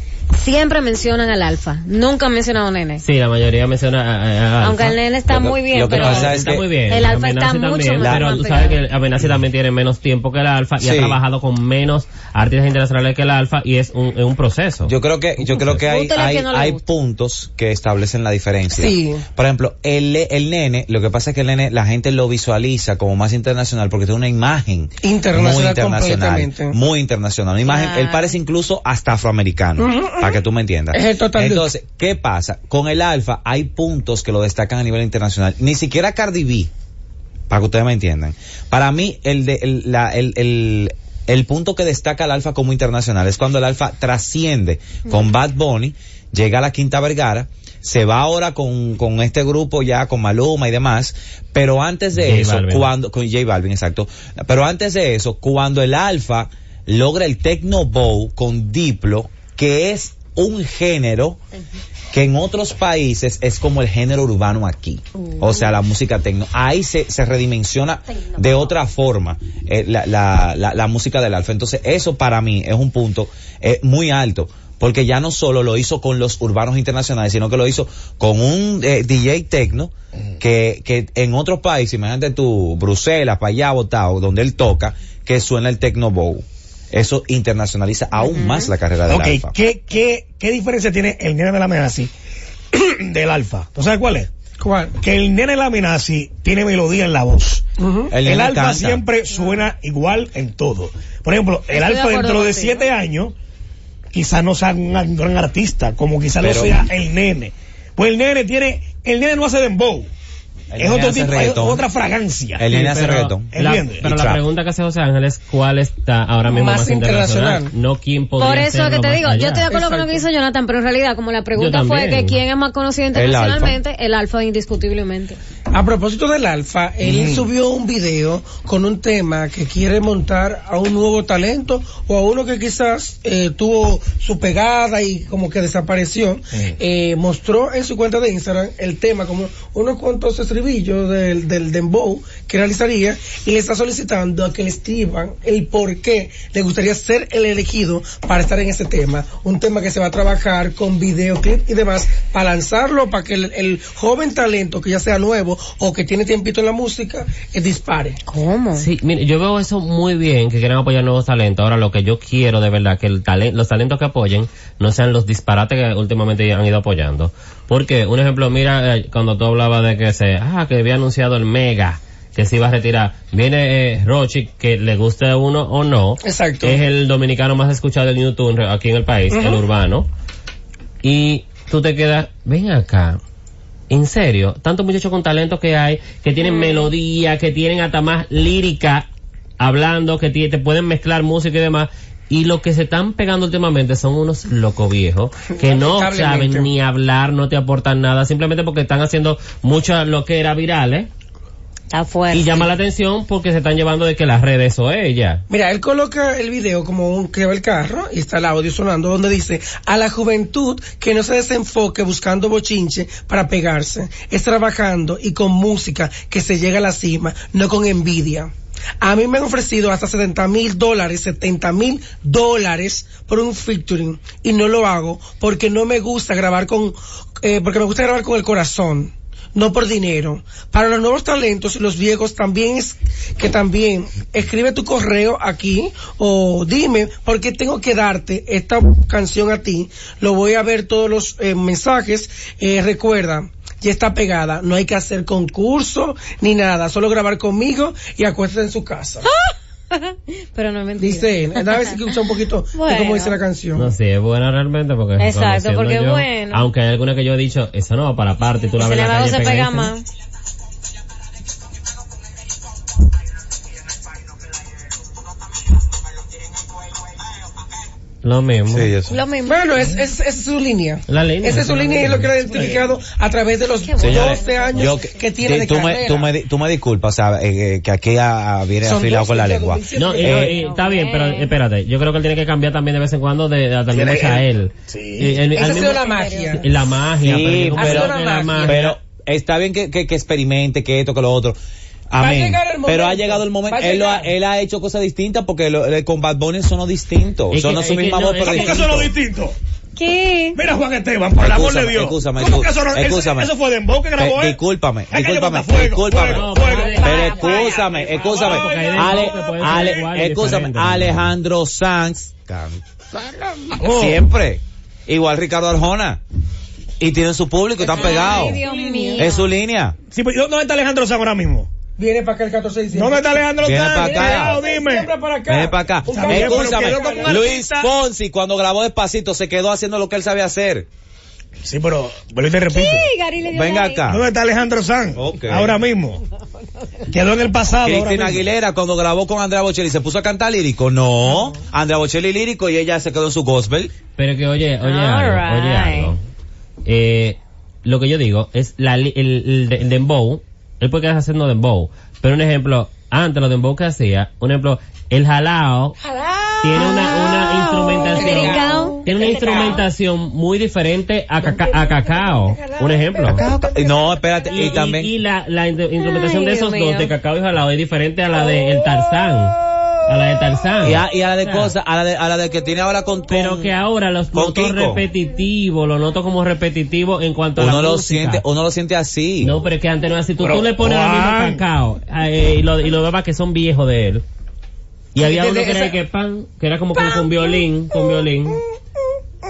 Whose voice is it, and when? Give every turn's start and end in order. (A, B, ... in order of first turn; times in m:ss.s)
0:00.3-0:03.0 A
0:03.0-0:05.0 B
0:04.6-0:08.8 A
0:05.3-0:06.6 C
0:05.9-0:15.7 B
0:08.0-0:08.4 C
0:10.8-0:11.2 C
0:14.8-0:36.7 C
0:15.8-0:16.8 A
0:18.7-0:19.2 D
0:25.0-0:26.8 D
0:27.6-0:28.4 A
0:29.8-0:30.4 D
0:30.9-0:31.7 D
0:37.5-1:01.4 C
0:52.2-0:52.9 B
1:02.1-1:29.5 C
1:05.3-1:05.6 A
1:28.2-1:28.7 A
1:29.1-1:32.1 E
1:32.7-1:34.3 E
1:34.6-1:35.0 D
1:35.0-1:37.6 E
1:37.8-1:38.2 D
1:38.1-1:39.0 C
1:38.2-1:43.3 E
1:41.7-1:42.9 A
1:44.1-1:50.1 E
1:46.4-1:46.8 C
1:50.7-1:51.8 C
1:50.8-1:52.8 E
1:52.6-1:54.4 C
1:52.7-1:59.7 B
1:53.5-1:54.0 E
1:56.5-1:57.7 D
1:58.4-2:05.4 A
1:59.7-2:00.2 D
2:01.6-2:02.4 B
2:03.1-2:03.8 C
2:05.7-2:38.2 D
2:07.0-2:07.5 E
2:38.3-2:38.8 A
2:38.8-3:00.1 B
2:56.2-2:56.8 D
2:59.3-2:59.6 D
3:01.0-3:03.2 B
3:03.9-3:09.1 B
3:06.4-3:06.9 A
3:09.6-3:21.1 B
3:15.5-3:16.7 D
3:21.9-3:22.7 A
3:22.3-3:25.4 B
3:25.5-4:09.3 D
4:09.2-4:12.2 A
4:11.0-4:13.9 D
4:12.7-4:13.4 A
4:13.7-4:19.9 B
4:15.2-4:16.6 A
4:18.8-4:20.0 A
4:28.2-4:28.9 B
4:28.7-4:29.2 C
4:29.1-4:29.8 A
4:29.4-4:36.3 D
4:31.1-4:32.3 B
4:32.4-4:32.8 E
4:33.8-4:35.2 A
4:34.0-4:40.6 C
4:38.8-4:40.6 D
4:40.0-4:48.9 B
4:40.6-4:41.5 A
4:43.9-4:45.4 E
4:45.5-4:46.7 D
4:45.6-4:46.5 A
4:47.2-4:51.6 C
4:47.8-4:48.9 D
4:52.1-4:59.1 C
4:52.2-4:54.3 D
4:57.5-4:58.8 B
4:58.4-4:59.6 E
5:00.0-5:00.6 A
5:00.5-5:04.6 E
5:01.4-5:03.5 C
5:04.2-5:12.8 C
5:05.1-5:10.0 E
5:06.2-5:07.6 B
5:06.6-5:08.2 A
5:08.4-5:11.3 B
5:13.8-5:14.2 E
5:13.8-5:16.2 C
5:17.0-5:18.6 C
5:17.8-5:19.3 D
5:17.8-5:19.5 A
5:19.2-5:20.0 C
5:20.1-5:21.7 E
5:22.0-5:23.4 D
5:22.9-5:25.1 E
5:23.6-5:24.6 C
5:24.0-5:27.5 D
5:25.5-5:30.9 C
5:26.1-5:27.9 E
5:31.6-5:33.1 E
5:32.7-5:34.0 A
5:33.4-5:34.2 C
5:34.0-5:36.2 E
5:35.2-5:35.8 C
5:37.1-5:38.4 E
5:37.8-5:43.9 C
5:44.2-5:46.2 B
5:44.8-5:46.1 A
5:46.8-5:56.0 B
5:56.0-5:59.8 D
5:56.6-6:03.5 B
5:56.7-5:59.8 A
6:01.4-6:03.9 D
6:03.3-6:05.1 C
6:04.5-6:09.5 B
6:06.0-6:07.1 A
6:10.0-6:11.7 B
6:10.8-6:13.7 C
6:13.3-6:18.4 B
6:14.3-6:15.0 C
6:17.6-6:19.6 C
6:19.4-6:24.2 B
6:20.4-6:21.6 E
6:25.1-6:28.6 B
6:25.2-6:26.0 D
6:27.0-6:28.6 D